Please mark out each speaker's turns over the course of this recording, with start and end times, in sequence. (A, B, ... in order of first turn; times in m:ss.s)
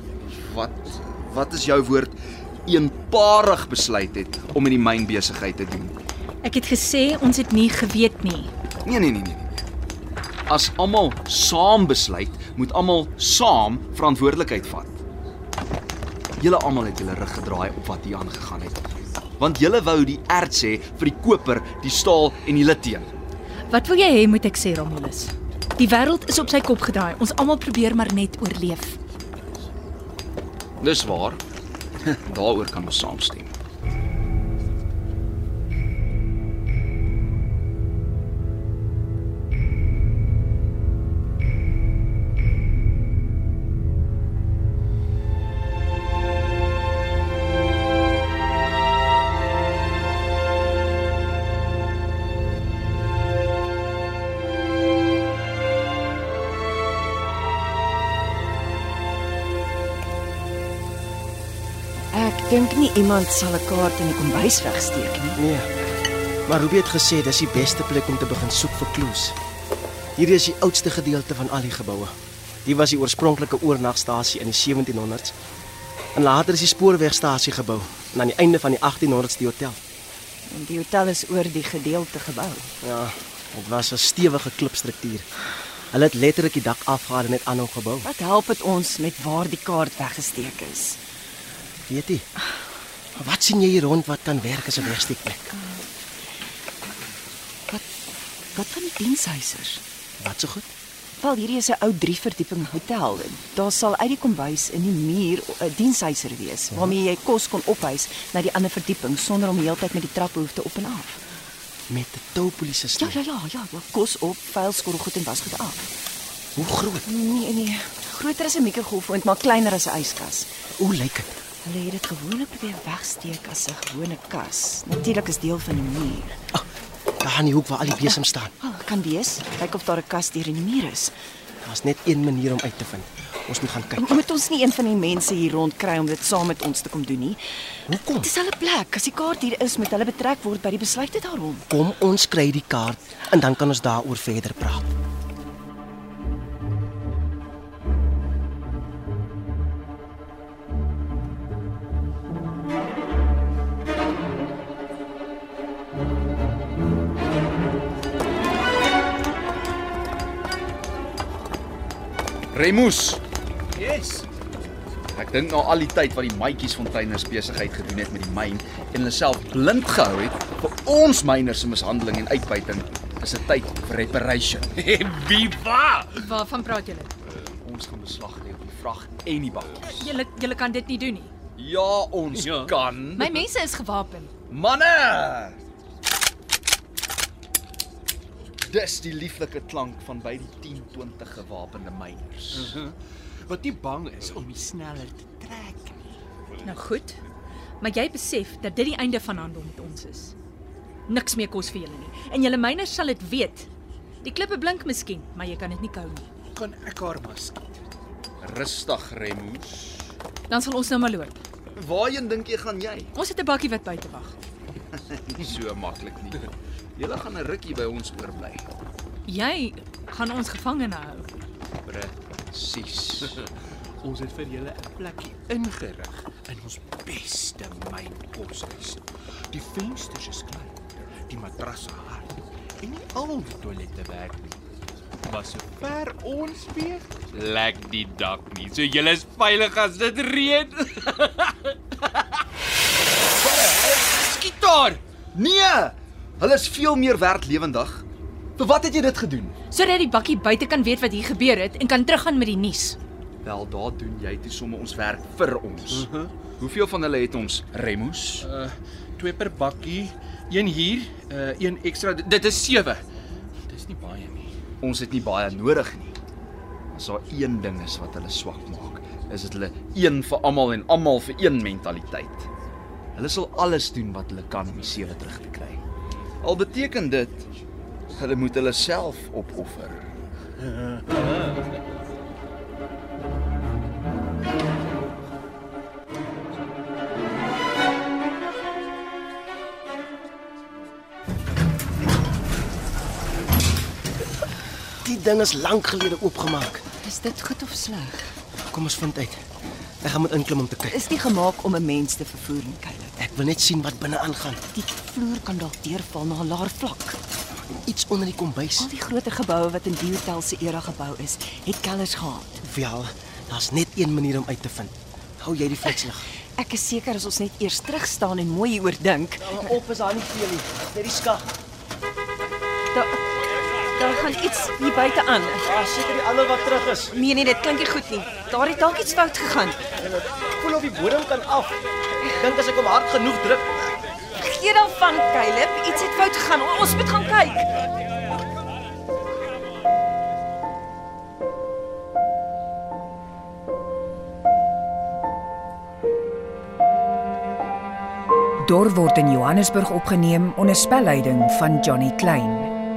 0:00.2-0:05.9 A
0:06.4-0:08.5 B
0:08.8-0:09.6 A
0:10.5-0:15.0 A
0:16.4-0:18.8 A
0:19.4-0:23.1 A
0:23.7-0:29.0 B
0:30.8-0:31.4 A
0:32.0-0:33.5 A
1:02.1-1:05.4 C
1:05.4-1:05.7 D
1:06.5-1:09.4 D
1:10.2-1:12.1 D
1:12.6-1:15.3 D
1:16.1-1:19.8 D
1:20.5-1:22.7 C
1:22.8-1:25.2 D
1:25.9-1:28.1 D
1:28.0-1:31.0 C
1:31.9-1:32.2 D
1:33.1-1:35.6 D
1:38.5-1:39.8 C
1:40.2-1:40.7 D
1:41.2-1:51.2 C
1:51.9-1:53.2 D
1:53.0-1:55.9 C
1:56.6-1:57.0 D
1:57.0-2:00.5 C
2:00.8-2:01.4 D
2:01.6-2:06.4 C
2:07.2-2:08.5 D
2:08.6-2:11.1 C
2:11.6-2:14.2 D
2:14.0-2:17.4 C
2:17.9-2:18.3 D
2:18.1-2:21.6 C
2:21.7-2:24.8 D
2:42.5-2:43.2 A
2:43.8-2:44.2 E
2:45.1-2:54.9 A
2:54.8-2:56.3 E
2:56.2-2:57.1 B
2:57.6-3:00.0 A
2:59.8-3:01.3 B
3:01.6-3:03.4 A
3:02.3-3:02.7 E
3:03.2-3:04.3 B
3:04.5-3:05.6 A
3:08.6-3:12.7 A
3:12.5-3:12.9 E
3:13.4-3:16.0 E
3:16.6-3:17.2 B
3:17.8-3:20.3 B
3:21.1-3:23.7 B
3:24.2-3:26.3 B
3:26.5-3:27.8 E
3:28.4-3:30.1 A
3:30.5-3:31.4 B
3:31.8-3:33.1 A
3:33.1-3:34.4 B
3:35.0-3:36.4 A
3:37.0-3:38.7 A
3:39.3-3:41.3 B
3:41.8-3:43.4 A
3:44.0-3:54.6 E
3:55.2-4:01.7 E
4:03.4-4:05.0 E
4:05.3-4:08.0 A
4:08.6-4:09.5 A
4:09.7-4:13.0 B
4:13.4-4:16.1 A
4:15.9-4:16.3 E
4:16.6-4:18.4 A
4:18.4-4:23.0 E
4:23.6-4:24.5 E
4:24.8-4:26.1 A
4:26.9-4:32.5 A
4:33.1-4:35.8 A
4:36.4-4:37.4 A
4:38.1-4:40.1 A
4:55.0-4:56.8 D
4:57.0-4:58.3 C
4:58.7-4:59.4 D
5:00.0-5:01.0 D
5:00.9-5:03.2 C
5:03.2-5:04.6 D
5:04.7-5:07.2 C
5:07.7-5:08.9 D
5:08.8-5:12.6 C
5:12.6-5:16.2 D
5:16.6-5:19.7 C
5:19.4-5:21.5 D
5:22.9-5:23.2 C
5:23.9-5:25.7 C
5:25.6-5:27.1 D
5:27.1-5:29.8 C
5:30.0-5:31.8 D
5:32.3-5:33.9 D
5:34.4-5:37.7 C
5:48.6-5:52.7 F